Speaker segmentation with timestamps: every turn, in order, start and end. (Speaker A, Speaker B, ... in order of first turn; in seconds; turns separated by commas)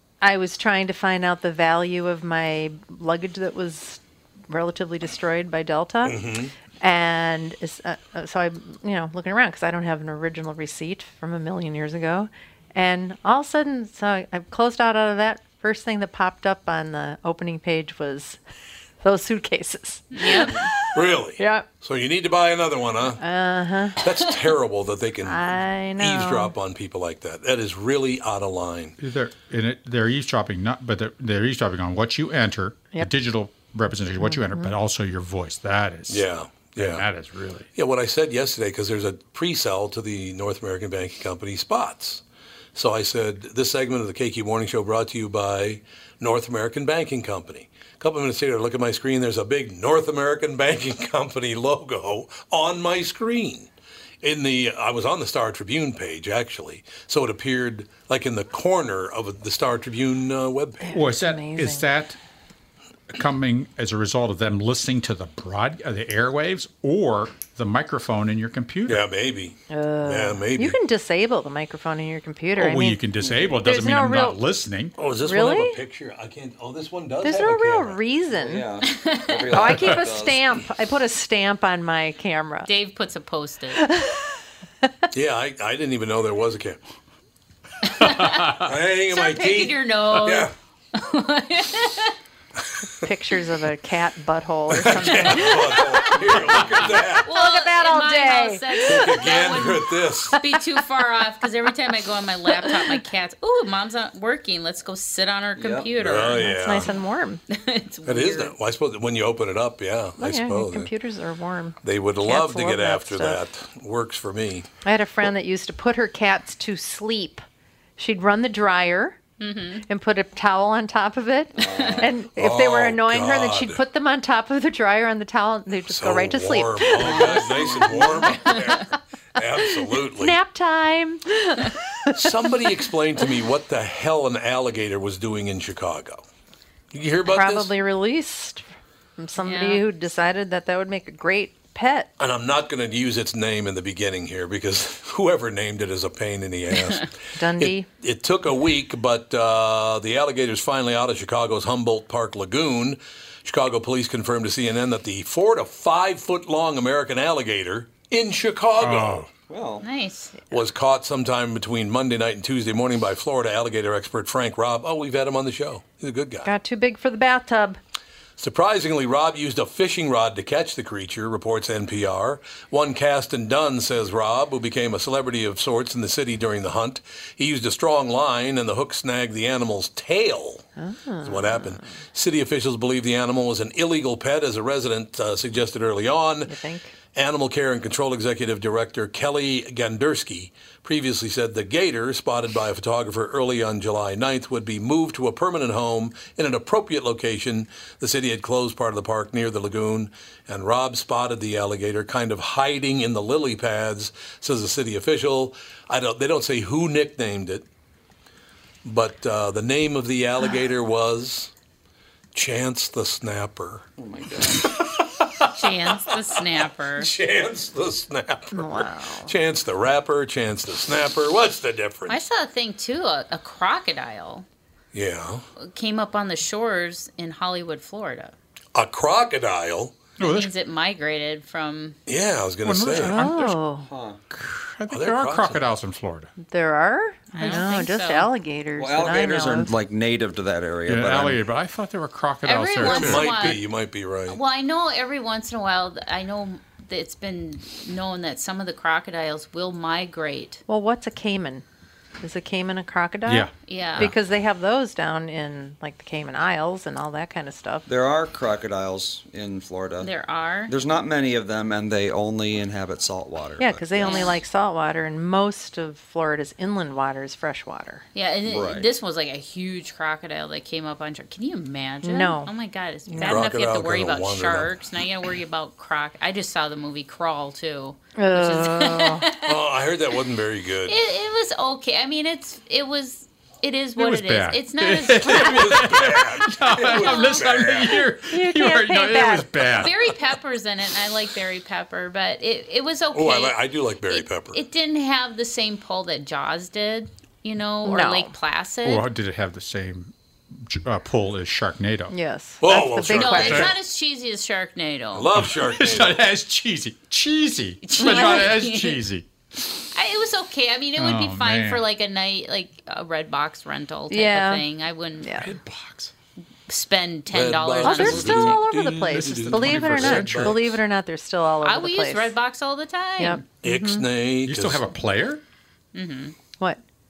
Speaker A: 0.2-6.2, Speaker B: 6.0-6.5, Speaker A: 6.8-18.4, Speaker A: 19.0-21.6, Speaker C: 20.1-20.7, Speaker B: 20.9-23.2, Speaker A: 23.2-24.0, Speaker B: 24.0-29.0, Speaker A: 25.2-26.5, Speaker D: 29.0-37.7, Speaker A: 34.1-34.8, Speaker B: 36.1-37.0, Speaker B: 37.7-42.2, Speaker B: 42.8-53.7, Speaker B: 54.2-61.0, Speaker A: 60.8-61.9, Speaker D: 60.9-62.2, Speaker D: 63.1-69.0, Speaker B: 68.9-70.8, Speaker A: 69.7-74.4, Speaker D: 72.5-74.9, Speaker E: 73.2-73.5, Speaker B: 75.0-78.0, Speaker A: 75.2-75.8, Speaker A: 77.2-78.7, Speaker E: 78.3-80.5, Speaker C: 78.8-79.7, Speaker A: 79.5-82.7, Speaker D: 79.7-80.0, Speaker C: 82.7-83.9, Speaker A: 83.8-84.2, Speaker B: 85.1-86.8, Speaker C: 87.9-92.2, Speaker B: 88.6-90.5, Speaker A: 93.0-96.6, Speaker B: 94.7-97.3, Speaker C: 94.8-96.2, Speaker C: 97.2-107.0, Speaker A: 97.3-99.7, Speaker B: 98.9-100.4, Speaker A: 100.3-100.8, Speaker A: 102.5-103.0, Speaker E: 105.6-105.9, Speaker B: 106.0-106.9, Speaker A: 106.5-107.4, Speaker C: 107.5-108.5, Speaker B: 108.1-110.9, Speaker A: 110.2-113.4, Speaker B: 111.8-114.7, Speaker A: 114.8-117.4, Speaker A: 118.0-119.2, Speaker C: 119.4-119.8, Speaker A: 119.9-128.8, Speaker E: 121.6-122.1, Speaker C: 121.6-122.1, Speaker B: 122.3-123.8, Speaker B: 125.9-130.4, Speaker C: 128.3-128.6, Speaker A: 129.6-132.7, Speaker B: 132.1-136.2, Speaker B: 136.9-137.7, Speaker A: 137.3-142.1, Speaker C: 139.4-139.8, Speaker B: 142.2-159.3, Speaker A: 147.4-147.9, Speaker D: 158.8-159.3, Speaker E: 159.5-159.9, Speaker C: 159.8-160.3, Speaker B: 160.5-166.5, Speaker A: 166.4-167.8, Speaker B: 168.4-180.7, Speaker A: 180.8-181.9, Speaker B: 181.2-186.6, Speaker A: 186.5-186.9, Speaker B: 187.1-207.7, Speaker B: 208.8-211.5, Speaker B: 212.3-216.4, Speaker E: 214.0-214.7, Speaker C: 215.6-217.1, Speaker B: 216.9-222.2, Speaker A: 218.5-219.3, Speaker C: 222.1-224.4, Speaker B: 224.9-225.4, Speaker C: 225.6-228.3, Speaker B: 228.8-229.9, Speaker C: 230.2-232.0, Speaker D: 230.2-230.5, Speaker B: 232.1-233.2, Speaker D: 232.6-233.6, Speaker A: 233.0-233.9, Speaker E: 233.9-234.2, Speaker D: 234.3-236.3, Speaker B: 234.9-235.6, Speaker A: 236.4-239.7, Speaker C: 237.3-238.3, Speaker E: 238.8-241.4, Speaker D: 240.9-243.5, Speaker C: 242.4-243.6, Speaker B: 242.8-244.4, Speaker C: 244.3-250.6, Speaker A: 250.7-251.6, Speaker A: 252.2-257.9, Speaker D: 253.3-254.1, Speaker C: 253.7-254.1, Speaker E: 257.9-260.1, Speaker C: 260.0-260.7, Speaker E: 260.7-264.0, Speaker A: 263.6-268.1, Speaker C: 263.9-264.4, Speaker C: 268.1-279.6, Speaker E: 268.4-268.9, Speaker A: 272.0-272.5, Speaker A: 273.1-273.4, Speaker B: 273.2-274.7, Speaker A: 278.1-279.3, Speaker B: 279.4-281.0, Speaker C: 280.9-288.0, Speaker D: 283.9-289.9, Speaker B: 285.2-288.0, Speaker A: 288.3-289.7, Speaker C: 289.7-299.1, Speaker B: 293.1-294.6, Speaker A: 297.8-298.3, Speaker D: 298.9-302.1, Speaker A: 302.1-303.7, Speaker B: 302.6-303.7, Speaker C: 303.1-305.3, Speaker D: 303.4-303.7, Speaker B: 305.1-306.2, Speaker D: 305.4-309.3, Speaker C: 307.9-309.0, Speaker A: 308.0-308.6, Speaker C: 309.9-315.4, Speaker D: 311.0-311.8, Speaker A: 314.1-314.6, Speaker A: 315.2-315.5, Speaker D: 315.4-316.1, Speaker C: 316.7-318.6, Speaker B: 317.3-320.8, Speaker A: 317.8-322.3, Speaker D: 319.5-320.6, Speaker C: 321.6-323.4, Speaker A: 323.2-324.1, Speaker B: 323.6-324.9, Speaker D: 324.4-325.4, Speaker C: 325.9-326.4